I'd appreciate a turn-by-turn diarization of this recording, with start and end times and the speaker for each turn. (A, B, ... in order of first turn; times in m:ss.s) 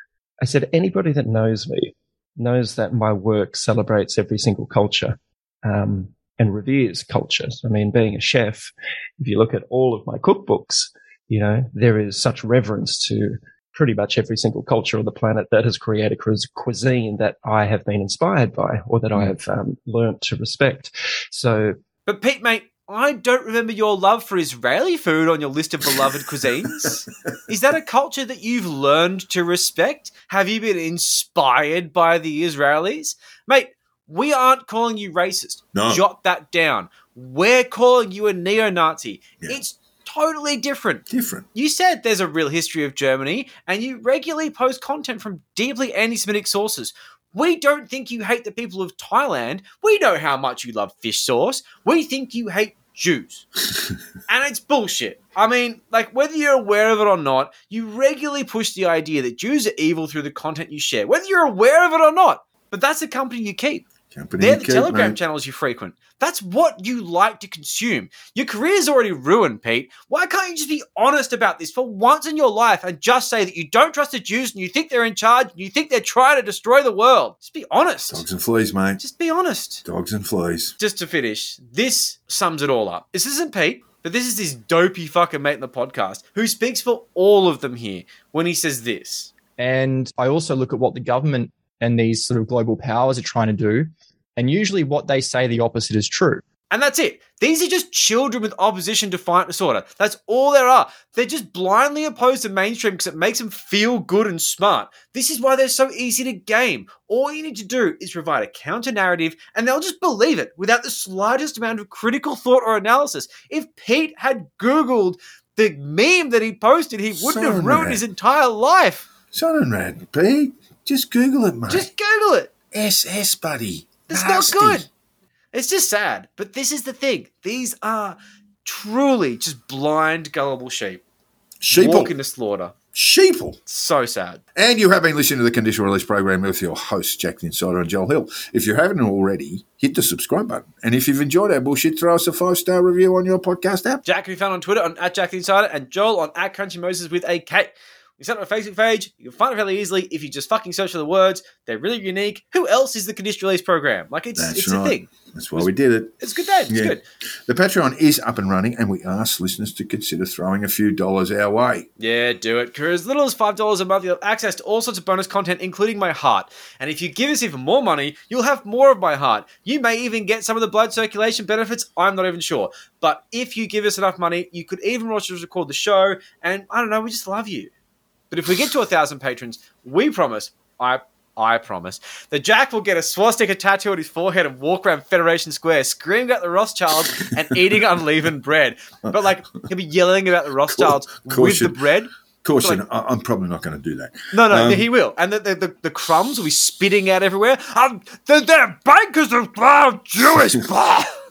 0:00.4-0:21.8 A
0:22.0-0:53.4 B
0:35.7-0:36.0 C
0:41.1-0:41.4 C
0:54.3-1:03.8 B
1:04.1-1:05.2 C
1:04.4-1:18.2 B
1:18.1-1:19.0 C
1:19.0-1:19.8 B
1:19.8-1:20.7 C
1:20.8-1:29.3 B
1:29.6-1:36.4 D
1:36.7-1:59.0 B
1:57.1-1:58.0 C
1:59.3-2:01.9 C
2:01.7-2:02.5 B
2:02.7-2:04.9 C
2:04.1-2:04.9 B
2:05.5-2:11.0 B
2:11.6-2:12.1 C
2:11.7-2:12.7 B
2:12.9-2:13.6 C
2:13.7-2:14.4 B
2:14.5-2:24.0 C
2:24.0-2:37.0 B
2:34.4-2:41.9 C
2:42.0-2:57.7 B
2:58.3-3:12.8 B
3:07.2-3:07.8 C
3:10.7-3:11.8 C
3:12.4-3:14.9 C
3:14.3-3:21.1 B